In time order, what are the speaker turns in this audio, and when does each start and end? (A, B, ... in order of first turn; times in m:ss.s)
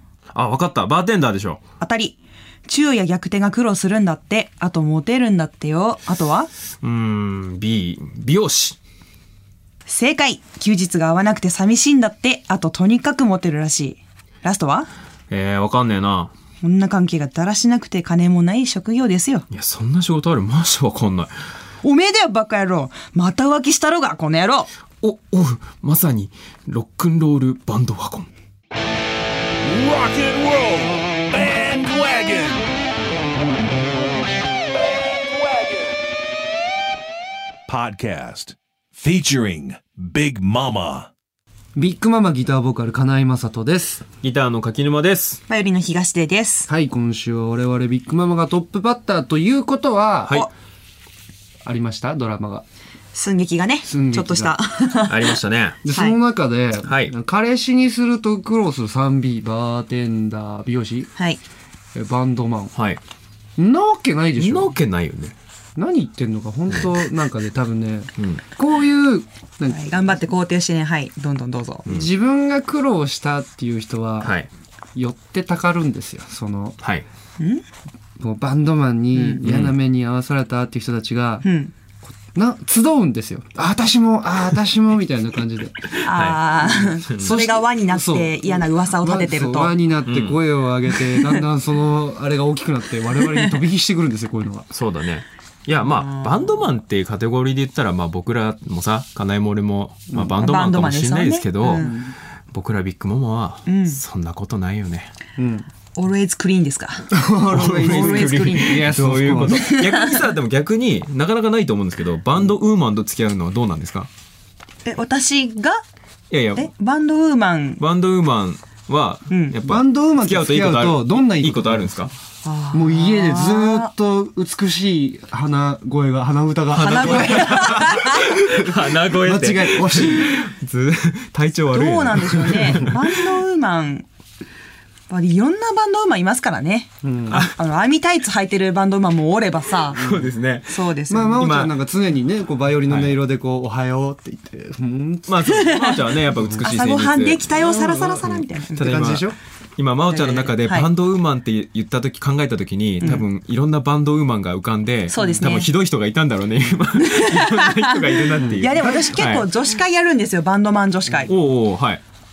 0:00.3-0:01.6 A
0:01.8-0:06.5 B
0:06.8-0:08.8 A
0:09.9-0:14.9 B
0:15.3-0:16.3 A
0:16.6-0:19.4 B
0:19.5-0:21.3 A
0:21.8-0:24.7 B
0:25.0-0:28.3 A
0:29.6-0:32.6 C
0:35.2-0:36.0 C
0:37.7-0:41.1 C
0:41.7-0:44.0 D
0:44.2-0:45.4 A
0:45.5-0:46.7 B
0:46.7-0:50.4 D
0:51.6-0:52.6 D
0:53.1-0:55.4 B
0:53.8-0:54.6 D
0:55.1-0:55.8 A
0:55.8-1:01.1 D
0:56.8-0:57.1 A
1:01.9-1:02.7 D
1:02.7-1:03.0 A
1:03.6-1:04.8 D
1:04.4-1:05.4 A
1:05.8-1:10.2 D
1:09.7-1:11.9 B
1:11.9-1:14.3 D
1:14.2-1:14.5 A
1:14.9-1:16.8 D
1:18.2-1:21.4 D
1:19.1-1:19.4 B
1:21.4-1:21.7 B
1:22.1-1:25.9 D
1:26.0-1:29.7 B
1:26.1-1:26.4 A
1:26.6-1:34.7 D
1:27.0-1:27.4 A
1:30.1-1:30.4 A
1:34.7-1:42.0 A
1:35.9-1:36.6 B
1:40.4-1:41.9 B
1:41.8-1:42.1 D
1:42.5-1:45.1 A
1:43.7-1:44.0 B
1:45.4-1:45.6 D
1:46.0-1:47.1 B
1:47.1-1:49.6 D
1:47.5-1:54.1 A
1:47.8-1:48.6 B
1:49.5-1:50.2 B
1:54.8-1:55.8 B
1:56.3-1:56.7 A
1:56.6-1:57.8 B
1:57.8-2:02.1 A
1:59.3-1:59.6 B
1:59.6-2:01.9 D
2:02.4-2:03.9 B
2:02.7-2:10.4 D
2:06.7-2:13.3 A
2:06.8-2:08.3 B
2:11.7-2:14.1 B
2:15.1-2:20.1 B
2:17.0-2:17.4 D
2:19.9-2:20.8 A
2:20.0-2:20.3 D
2:20.7-2:21.5 B
2:21.1-2:25.6 D
2:21.4-2:21.7 A
2:22.9-2:23.2 A
2:25.3-2:27.4 A
2:25.6-2:26.0 B
2:26.4-2:26.7 D
2:26.6-2:28.9 B
2:27.5-2:29.4 D
2:28.8-2:39.5 A
2:30.1-2:30.9 B
2:35.1-2:35.7 B
2:35.2-2:35.5 D
2:37.0-2:41.3 B
2:38.3-2:39.3 D
2:41.2-2:42.0 A